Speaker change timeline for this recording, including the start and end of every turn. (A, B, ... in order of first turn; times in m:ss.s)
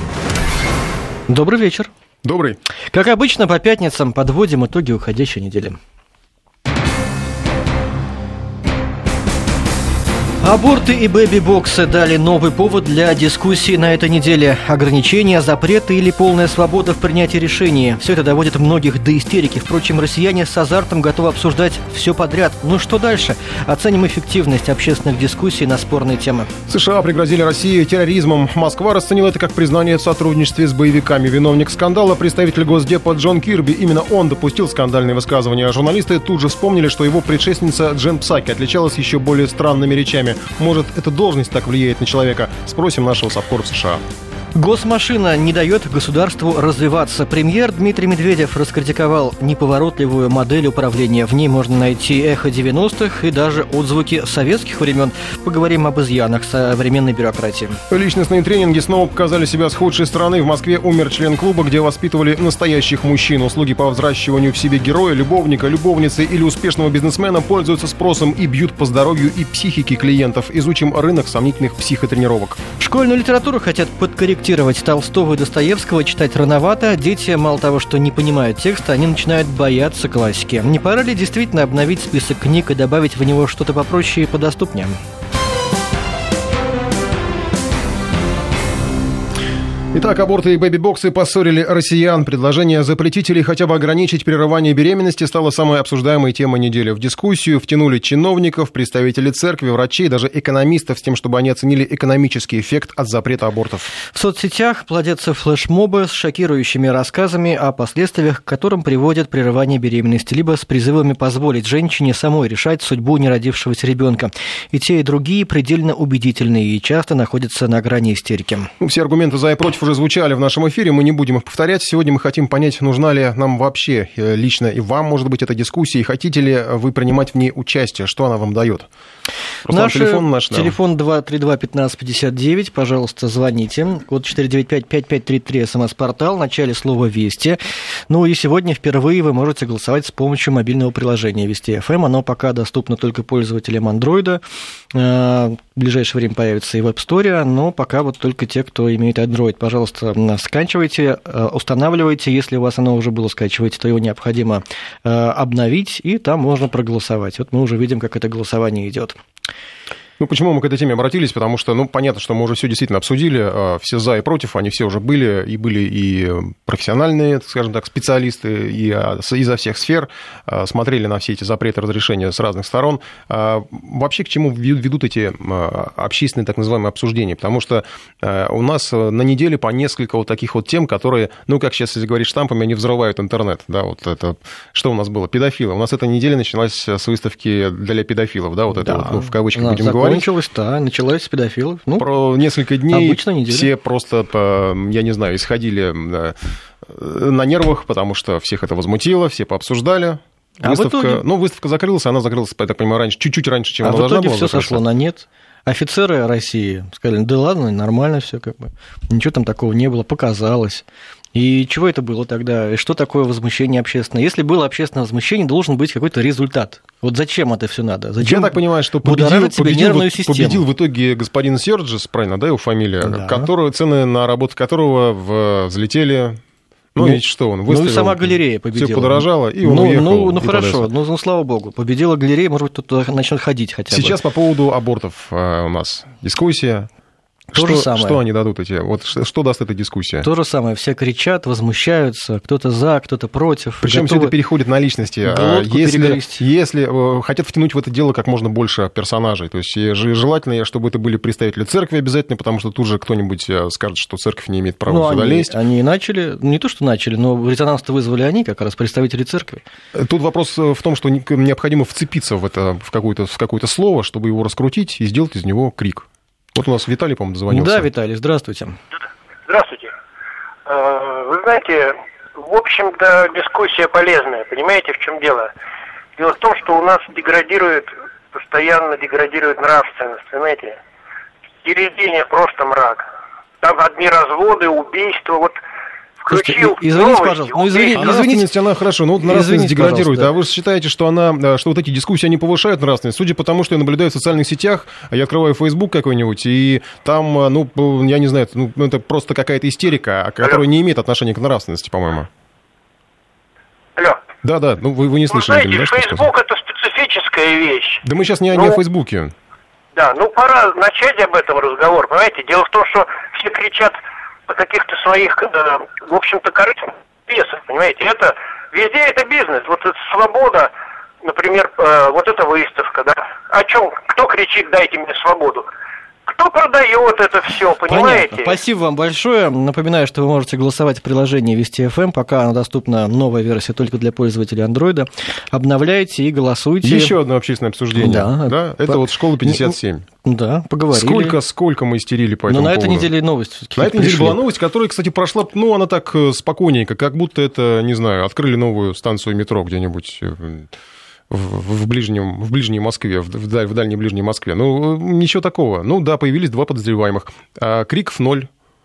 0:01.3-0:01.9 A
0:02.2-0:02.6 B
0:02.9-0:05.8 A
0:10.4-0:26.5 A
0:26.7-0:44.0 B
0:44.6-0:57.8 A
0:57.9-1:12.6 B
1:12.8-1:25.0 A
1:29.9-1:43.9 B
1:44.1-1:58.7 A
1:58.8-2:08.9 B
2:09.6-2:10.8 B
2:09.7-2:17.6 A
2:18.1-2:24.4 A
2:24.9-2:39.2 A
2:40.2-3:10.3 B
3:08.7-3:12.1 A
3:12.0-3:24.8 B
3:12.9-3:13.7 A
3:20.6-3:21.2 A
3:23.8-3:40.6 A
3:38.2-3:46.4 B
3:43.0-3:43.5 A
3:47.0-3:50.9 B
3:47.0-3:54.2 A
3:53.9-3:56.9 B
3:57.5-4:00.3 B
3:57.6-3:58.2 A
4:00.2-4:04.3 A
4:03.8-4:15.5 B
4:05.2-4:06.4 A
4:14.9-4:19.6 A
4:20.0-4:27.9 B
4:27.5-4:28.8 A
4:29.5-4:29.9 C
4:30.7-4:35.5 C
4:36.2-4:40.8 C
4:41.6-4:43.1 C
4:43.6-4:45.6 C
4:46.2-4:48.2 C
4:46.3-4:48.5 A
4:48.0-5:02.3 B
4:49.2-4:50.3 A
5:04.0-5:04.2 C
5:04.4-5:06.3 B
5:05.3-5:08.0 C
5:08.0-5:09.3 B
5:08.5-5:08.8 C
5:10.0-5:20.7 C
5:21.2-5:25.7 C
5:26.3-5:28.6 C
5:27.9-5:37.2 A
5:36.8-5:40.0 B
5:38.0-5:41.4 A
5:40.9-5:43.1 B
5:42.5-5:44.4 A
5:43.8-5:50.7 B
5:51.3-5:58.5 B